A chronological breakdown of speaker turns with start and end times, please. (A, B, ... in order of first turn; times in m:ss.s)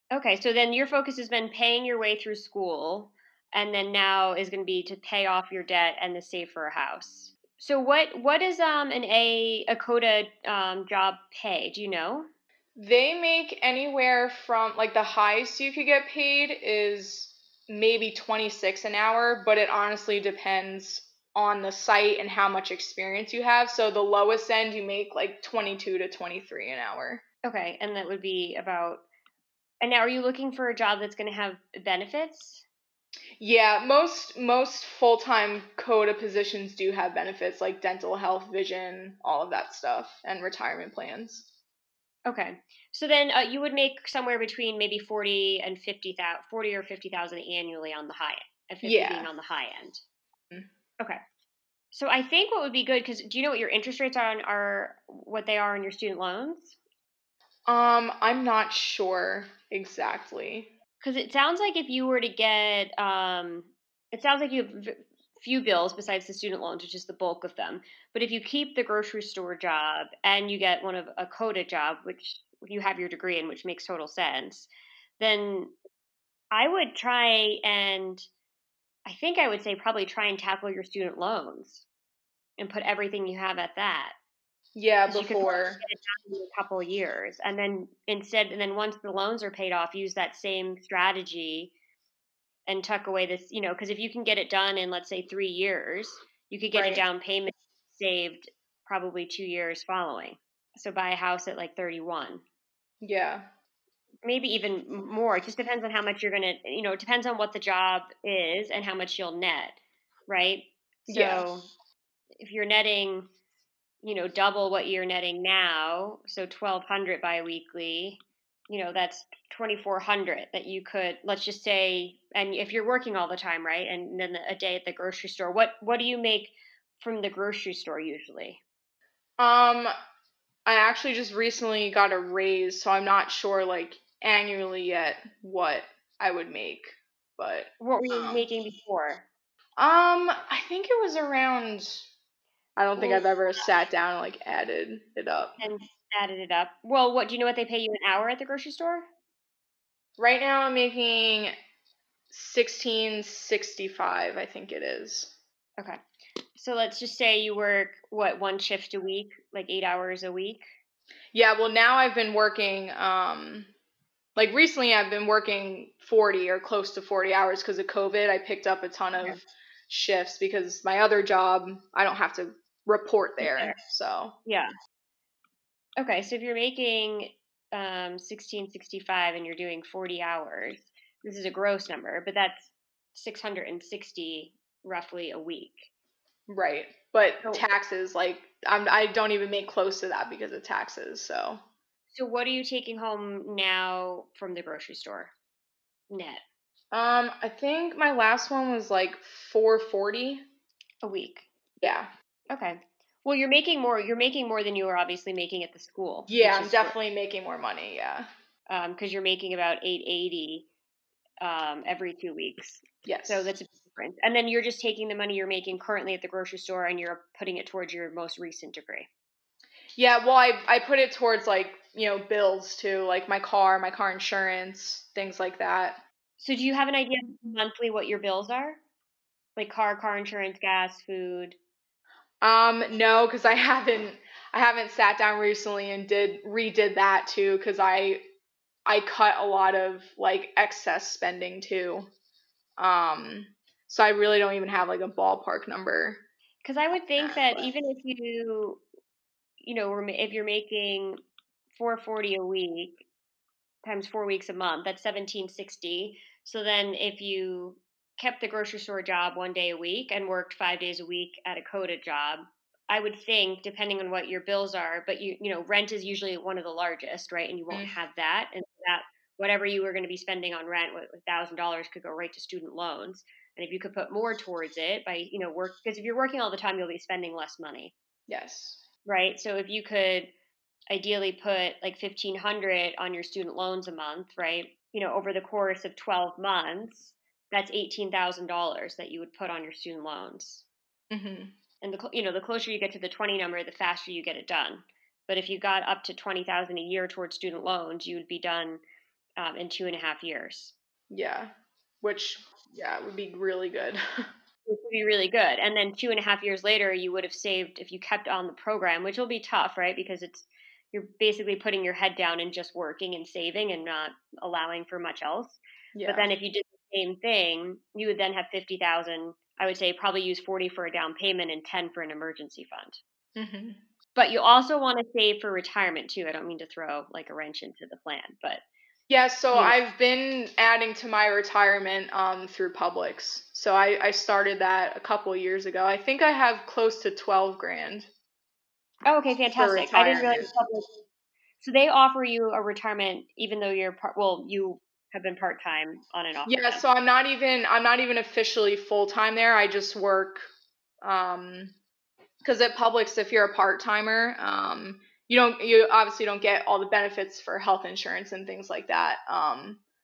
0:00.1-0:12.3 A
0:12.8-0:27.2 B
0:27.4-0:29.0 A
0:29.8-0:32.6 A
0:33.4-0:41.5 B
0:42.2-0:50.0 A
0:48.8-0:49.3 B
0:51.9-0:56.8 A
0:57.6-1:00.7 B
1:01.0-1:14.7 A
1:15.2-1:15.7 A
1:16.5-1:18.2 A
1:19.0-1:21.8 A
1:22.6-1:24.2 A
1:24.7-1:25.8 B
1:25.1-1:31.7 A
1:32.7-1:42.4 A
1:36.7-1:37.0 B
1:43.0-1:43.4 B
1:44.2-1:49.8 A
1:50.3-1:51.7 A
1:51.1-1:51.4 B
1:52.4-1:53.3 A
1:54.0-2:08.6 A
2:09.4-2:09.9 B
2:10.6-2:18.4 B
2:17.8-2:19.2 A
2:19.8-2:22.0 B
2:22.8-2:25.6 B
2:23.0-2:23.3 A
2:25.6-2:29.0 A
2:30.2-2:31.5 B
2:32.3-2:35.3 B
2:36.6-2:40.6 A
2:41.3-2:43.7 B
2:44.4-2:54.3 B
2:53.4-2:53.8 A
2:54.4-2:54.7 A
2:56.0-3:05.9 A
3:06.5-3:11.6 B
3:12.1-3:15.3 A
3:16.1-3:16.4 A
3:16.9-3:20.4 B
3:21.0-3:21.4 A
3:21.8-3:22.1 B
3:22.5-3:27.0 A
3:26.3-3:28.3 B
3:28.7-3:30.6 A
3:31.4-3:39.1 A
3:33.0-3:33.5 B
3:40.0-3:46.0 B
3:46.4-3:48.8 A
3:49.6-3:51.6 A
3:52.4-3:58.2 B
3:58.8-4:02.1 B
4:02.8-4:06.2 B
4:06.6-4:08.8 A
4:07.2-4:07.7 B
4:09.6-4:11.2 A
4:11.7-4:13.0 A
4:13.8-4:37.9 A
4:38.3-4:38.8 B
4:39.0-4:40.3 A
4:40.9-4:50.6 A
4:51.1-4:51.5 B
4:51.8-4:58.8 A
4:59.4-5:00.7 A
5:01.1-5:04.3 B
5:04.6-5:23.0 A
5:15.9-5:16.3 B
5:23.4-5:23.8 B
5:24.1-5:28.6 A
5:29.1-5:38.1 B
5:39.0-5:40.9 A
5:39.6-5:40.5 B
5:41.6-5:46.8 A
5:46.4-5:50.5 B
5:51.0-5:51.7 B
5:52.4-5:59.8 B